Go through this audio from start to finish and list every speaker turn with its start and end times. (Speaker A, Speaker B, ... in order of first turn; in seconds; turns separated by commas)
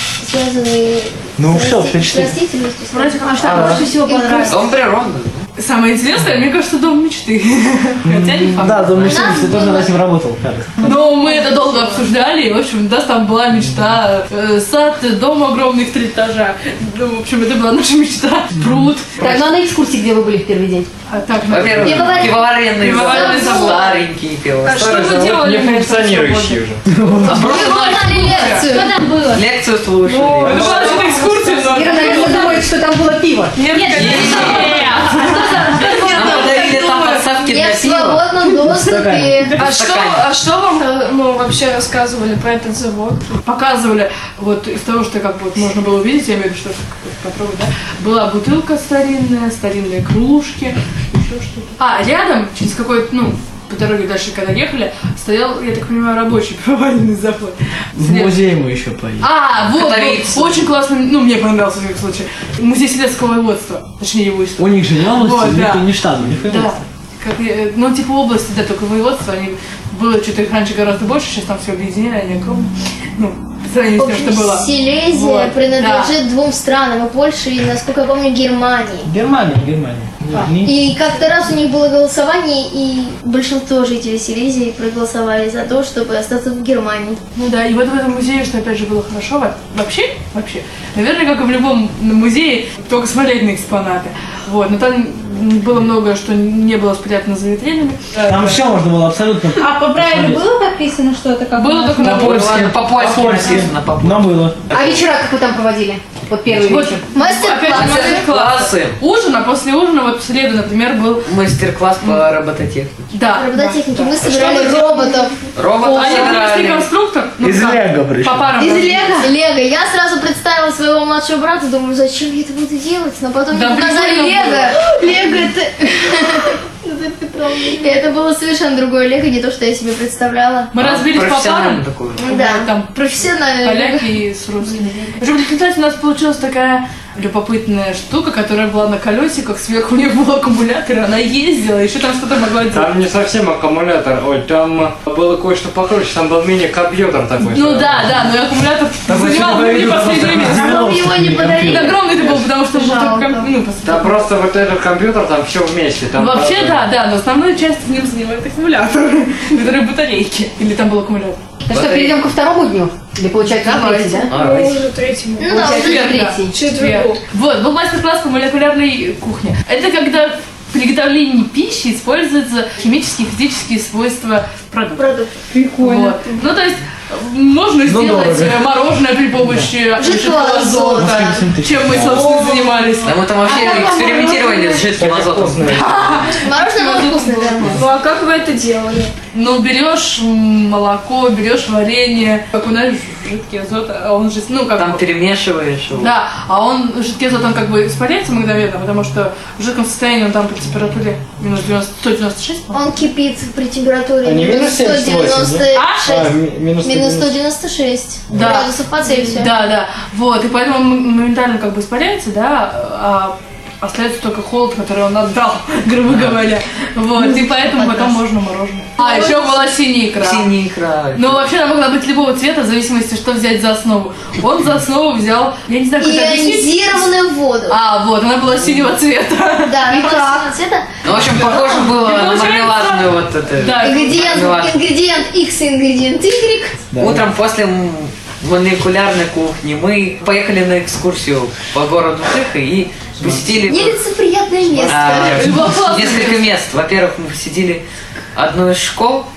Speaker A: 0.2-4.6, Speaker B: 1.4-2.4, Speaker C: 2.9-4.6, Speaker D: 4.5-5.4, Speaker C: 5.5-9.2, Speaker B: 8.0-10.9, Speaker A: 9.0-9.9, Speaker C: 10.8-19.5, Speaker A: 10.8-12.1, Speaker B: 18.6-18.9, Speaker E: 19.2-20.9, Speaker C: 21.1-24.0, Speaker D: 21.5-24.8, Speaker A: 21.8-24.0, Speaker F: 24.6-26.8, Speaker C: 24.6-28.8, Speaker B: 26.9-27.4, Speaker A: 27.2-29.0, Speaker D: 27.3-27.7, Speaker G: 28.5-29.4, Speaker D: 29.3-30.7, Speaker C: 30.0-32.7, Speaker F: 30.4-31.3, Speaker E: 31.6-33.5, Speaker C: 33.5-37.4, Speaker G: 33.6-36.6, Speaker D: 33.9-34.8, Speaker D: 36.0-38.3, Speaker A: 37.5-39.6, Speaker B: 38.6-39.5, Speaker H: 39.5-43.4, Speaker D: 39.6-40.3, Speaker C: 43.4-58.4, Speaker B: 58.0-59.3, Speaker C: 59.2-65.9, Speaker D: 59.7-60.7, Speaker B: 64.6-66.8, Speaker C: 66.5-76.2, Speaker A: 74.0-79.1, Speaker B: 79.0-80.8, Speaker A: 80.3-87.2, Speaker C: 87.3-98.6, Speaker B: 98.2-100.5, Speaker G: 99.5-102.2, Speaker C: 101.5-102.7, Speaker B: 102.0-105.0, Speaker D: 102.1-104.9, Speaker E: 104.7-107.0, Speaker C: 106.6-111.3, Speaker A: 107.1-108.3, Speaker D: 107.6-109.0, Speaker D: 111.2-113.1, Speaker C: 112.0-112.3, Speaker C: 113.1-115.2, Speaker A: 113.3-116.4, Speaker D: 115.5-116.9, Speaker C: 115.7-119.3, Speaker B: 117.4-118.7, Speaker A: 118.6-130.7, Speaker C: 123.5-125.5, Speaker C: 130.7-142.9, Speaker D: 130.8-132.3, Speaker A: 132.2-135.2, Speaker F: 142.7-148.2, Speaker C: 147.4-150.8, Speaker B: 149.1-152.0, Speaker A: 150.4-153.4, Speaker C: 151.6-154.3, Speaker F: 152.1-152.5, Speaker F: 153.8-156.9, Speaker C: 156.1-161.4, Speaker E: 161.7-164.3, Speaker D: 161.7-162.2, Speaker C: 163.4-164.6, Speaker D: 164.3-164.9, Speaker H: 164.3-167.2, Speaker A: 165.4-166.2, Speaker C: 165.5-175.1, Speaker E: 165.5-166.6, Speaker A: 175.0-175.4, Speaker C: 175.8-184.3, Speaker B: 177.8-178.7, Speaker A: 179.9-181.4, Speaker B: 180.9-182.3, Speaker D: 183.0-185.8, Speaker E: 183.5-184.7, Speaker F: 184.9-186.2, Speaker C: 185.7-187.9, Speaker A: 186.3-187.8, Speaker H: 187.7-189.1, Speaker C: 189.3-195.1, Speaker D: 194.8-196.1, Speaker C: 195.9-202.8, Speaker A: 202.7-209.5, Speaker F: 204.2-207.4, Speaker C: 205.7-206.2, Speaker C: 208.3-220.6, Speaker A: 217.1-218.2, Speaker A: 219.0-219.7, Speaker D: 220.2-221.4, Speaker C: 221.1-227.1, Speaker A: 226.0-227.8, Speaker C: 227.7-230.5, Speaker A: 229.6-230.8, Speaker D: 231.0-234.8, Speaker C: 231.1-234.5, Speaker A: 233.8-236.8, Speaker B: 236.9-237.3, Speaker D: 237.0-244.0, Speaker A: 243.5-245.5, Speaker D: 244.8-247.8, Speaker C: 245.0-246.6, Speaker D: 248.3-249.2